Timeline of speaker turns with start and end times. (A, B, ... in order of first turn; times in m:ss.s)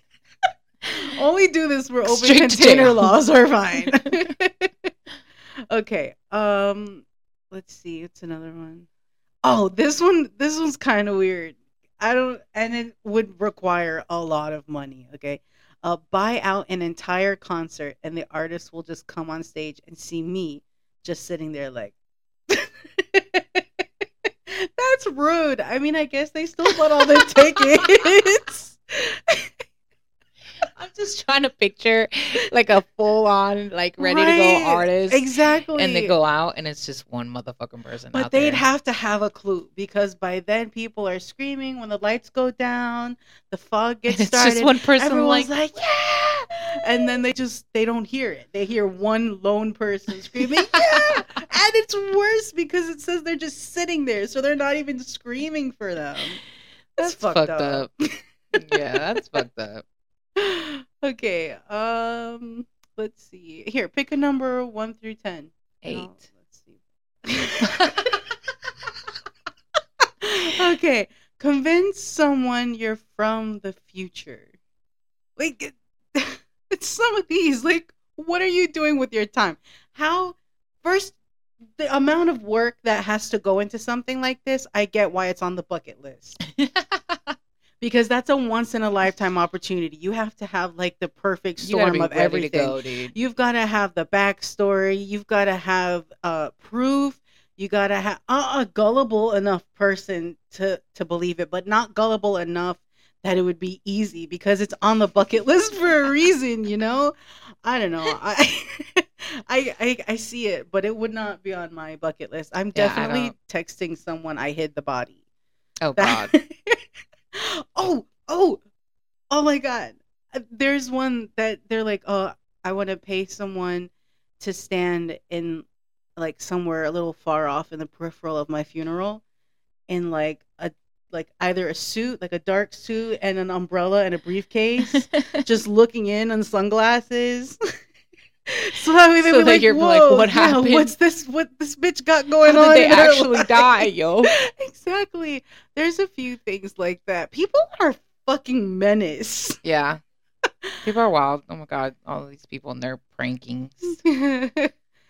0:00.8-0:04.9 A
0:02.0-0:03.1 B
0:05.7-0:08.9 A
0:09.4-0:22.0 A
0:22.5-0:29.5 A
0:27.0-0:27.6 B
0:30.8-0:38.6 B
0:34.0-0:36.1 A
0:38.1-0:56.4 A
0:44.1-0:45.5 B
0:50.4-0:51.2 B
0:57.0-0:57.9 B
0:57.0-0:59.2 A
0:58.6-0:59.8 B
1:00.4-1:08.2 A
1:05.8-1:06.1 B
1:07.6-1:07.9 B
1:10.2-1:14.5 A
1:15.4-1:21.2 A
1:21.8-1:26.4 A
1:26.6-1:27.4 B
1:27.8-1:55.2 A
1:31.6-1:33.2 B
1:52.8-1:53.3 B
1:55.8-1:56.3 B
1:56.0-1:56.8 A
1:57.3-1:58.6 A
1:59.3-2:05.7 A
2:06.2-2:09.2 A
2:09.9-2:17.6 A
2:14.9-2:15.4 B
2:18.5-2:29.6 A
2:19.2-2:20.9 B
2:22.5-2:24.3 B
2:29.6-2:30.0 B
2:30.8-2:34.0 B
2:33.8-2:34.7 A